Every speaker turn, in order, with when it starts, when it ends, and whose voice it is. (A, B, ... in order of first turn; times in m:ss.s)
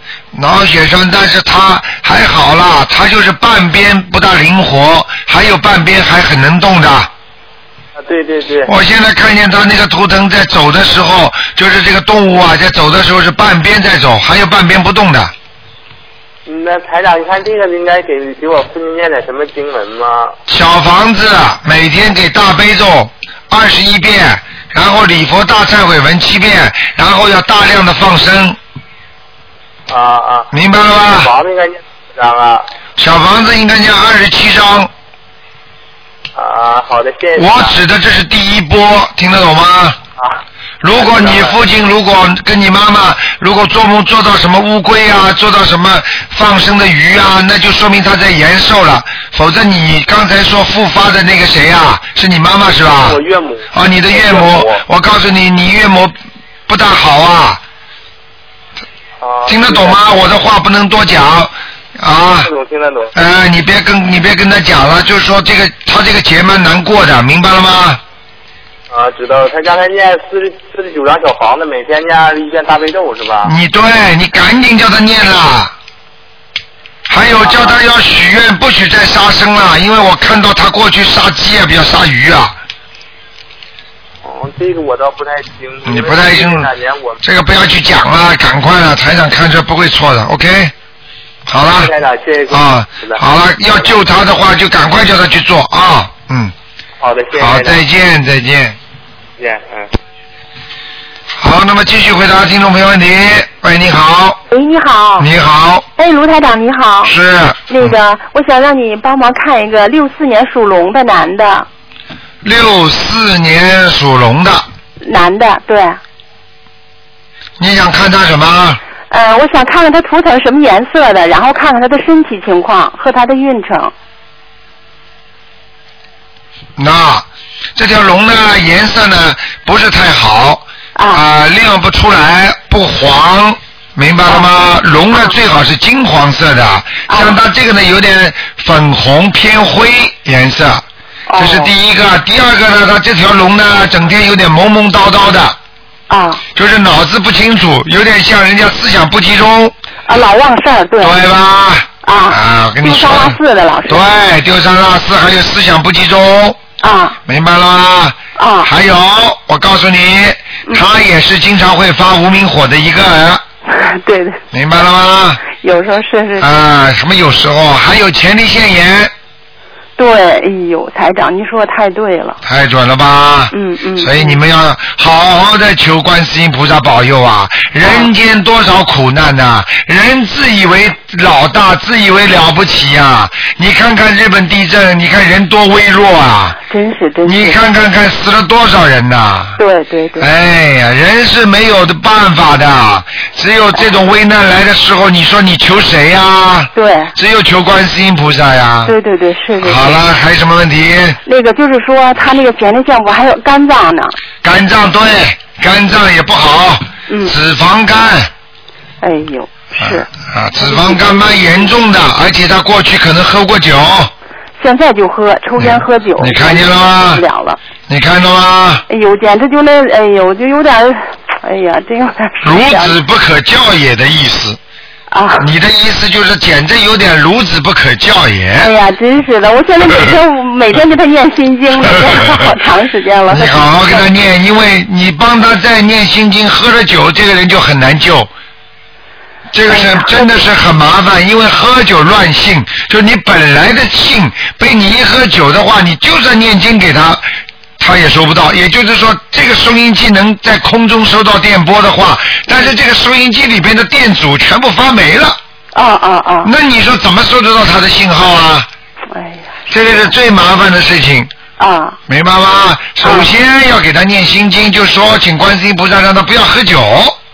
0:00.3-0:07.1 A
0:08.0-0:08.7 B
0:08.6-0:15.3 A
0:16.4-0:20.4 B
0:20.5-0:28.6 A
0:29.9-0:32.6 B
0:30.5-0:31.3 A
0:33.0-0:34.9 A
0:36.4-0:37.8 B
0:37.3-0:40.0 A
0:40.8-0:53.2 A
0:40.9-0:41.6 B
0:53.0-0:54.8 B
0:53.7-0:56.1 A
0:56.7-0:57.6 A
0:59.2-1:00.1 B
0:59.4-1:02.5 A
1:02.4-1:03.1 B
1:03.1-1:08.0 A
1:08.9-1:13.5 B
1:13.4-1:15.7 A
1:17.1-1:22.6 A
1:17.4-1:17.8 B
1:24.2-1:27.2 B
1:25.8-1:26.7 A
1:27.2-1:30.7 A
1:31.5-1:31.9 A
1:31.6-1:34.0 B
1:32.5-1:36.5 A
1:37.0-1:37.8 B
1:37.3-1:38.8 A
1:39.4-1:39.9 B
1:41.4-1:44.4 A
1:44.5-1:45.3 C
1:45.2-1:45.8 A
1:46.0-1:47.1 C
1:47.0-1:48.0 A
1:47.7-1:51.7 C
1:52.4-1:54.6 A
1:55.0-1:56.0 C
1:57.6-1:58.8 A
1:59.1-2:03.9 C
2:06.8-2:07.2 A
2:07.8-2:20.8 A
2:11.0-2:11.2 C
2:17.1-2:17.4 C
2:21.3-2:21.7 C
2:21.4-2:25.6 A
2:26.1-2:26.4 C
2:26.5-2:29.7 A
2:30.1-2:31.2 C
2:31.0-2:36.6 A
2:32.0-2:34.0 C
2:36.8-2:37.2 C
2:37.2-2:43.4 A
2:38.4-2:38.7 C
2:43.7-2:44.4 C
2:44.5-2:45.4 A
2:45.4-2:46.5 C
2:46.4-2:49.1 A
2:50.0-2:52.4 C
2:52.4-3:06.6 A
2:53.5-2:54.4 C
2:57.8-2:58.1 C
3:06.7-3:07.6 C
3:07.2-3:09.6 A
3:09.6-3:10.3 C
3:10.2-3:19.0 A
3:16.7-3:17.1 C
3:18.8-3:20.0 C
3:19.6-3:21.2 A
3:21.2-3:24.2 C
3:24.4-3:28.3 A
3:27.1-3:27.3 C
3:29.0-3:30.1 C
3:29.8-3:34.1 A
3:30.6-3:31.1 C
3:34.6-3:37.6 C
3:35.6-3:37.2 A
3:37.9-3:38.8 A
3:38.9-3:43.0 C
3:42.4-3:44.6 A
3:45.1-3:45.5 C
3:45.4-3:48.7 A
3:48.6-3:54.0 C
3:51.8-3:52.2 A
3:53.3-3:58.3 A
3:59.5-4:07.2 A
3:59.7-4:00.4 C
4:07.8-4:15.4 A
4:15.7-4:16.5 C
4:16.4-4:18.7 A
4:19.1-4:19.5 C
4:19.7-4:21.3 A
4:21.6-4:22.0 C
4:22.1-4:27.2 A
4:23.0-4:23.3 C